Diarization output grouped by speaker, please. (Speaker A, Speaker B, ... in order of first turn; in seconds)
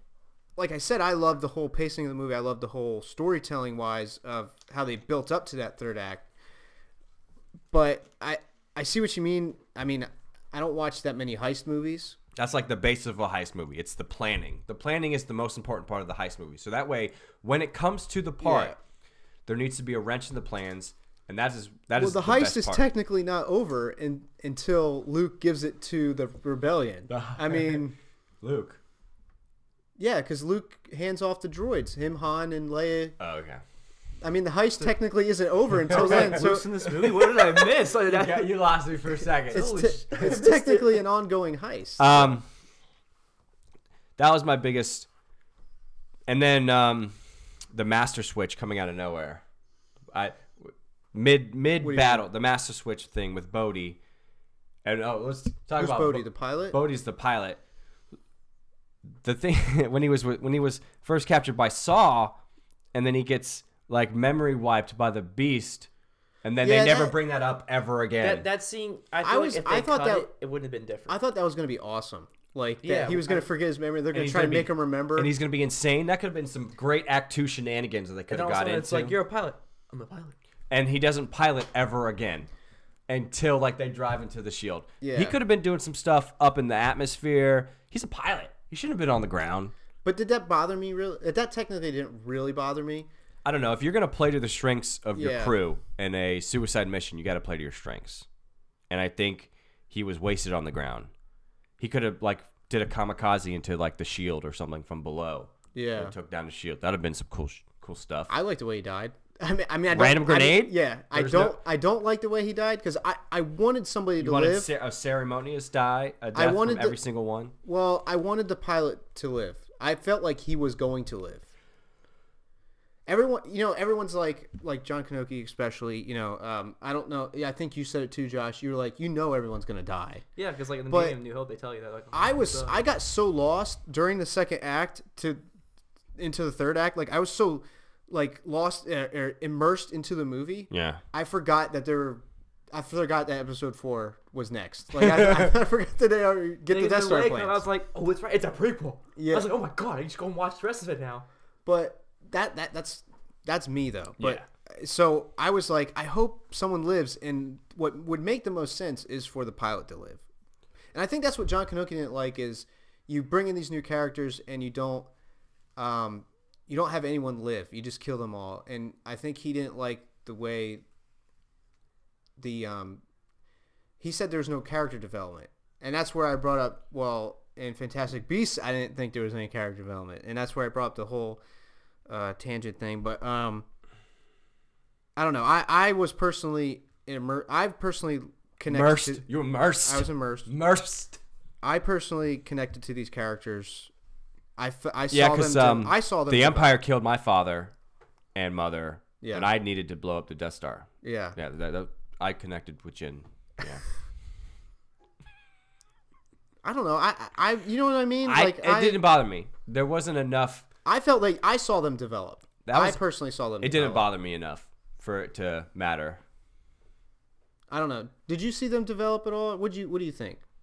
Speaker A: 0.6-6.2, 7.7-12.2, 18.4-18.8, 21.9-27.9, 30.0-33.1, 34.2-36.7, 39.5-42.4, 51.8-52.2, 55.8-56.8, 66.6-67.2, 69.2-70.3, 71.1-75.3, 85.0-85.4, 90.0-93.1, 95.1-95.5, 105.7-106.1, 108.3-114.7, 116.3-117.0, 117.6-121.5, 123.1-130.2, 130.9-131.2, 132.1-135.4, 136.2-147.6, 149.2-149.5, 151.6-160.2, 160.9-165.1, 165.8-170.8, 172.4-173.0, 174.0-181.4, 182.1-183.7, 185.2-189.2, 189.8-190.5, 191.6-193.9, 194.6-196.8, 199.2-199.5, 201.0-201.4, 206.6-209.0, 210.8-214.1, 217.7-220.4
Speaker B: 12.3-18.8, 19.5-22.8, 27.1-27.9, 28.4-28.8, 33.2-33.6, 35.9-40.4, 42.0-42.5, 44.2-45.1, 46.3-47.1, 47.7-49.4, 50.1-54.0, 54.8-57.6, 59.2-62.4, 62.9-65.9, 66.4-68.5, 74.1-79.2, 80.7-82.5, 83.1-89.7, 93.4-98.2, 98.9-101.1, 101.8-108.3, 109.9-111.6, 114.2-117.5, 140.7-141.0, 145.1-145.4, 154.2-154.4, 188.7-191.2, 195.1-197.7, 198.3-203.8, 208.2-210.7, 212.6-213.0, 213.6-216.2
Speaker C: 35.9-38.6, 40.1-40.9, 68.2-71.2, 72.8-73.5, 78.3-80.3, 130.3-132.8, 146.7-151.2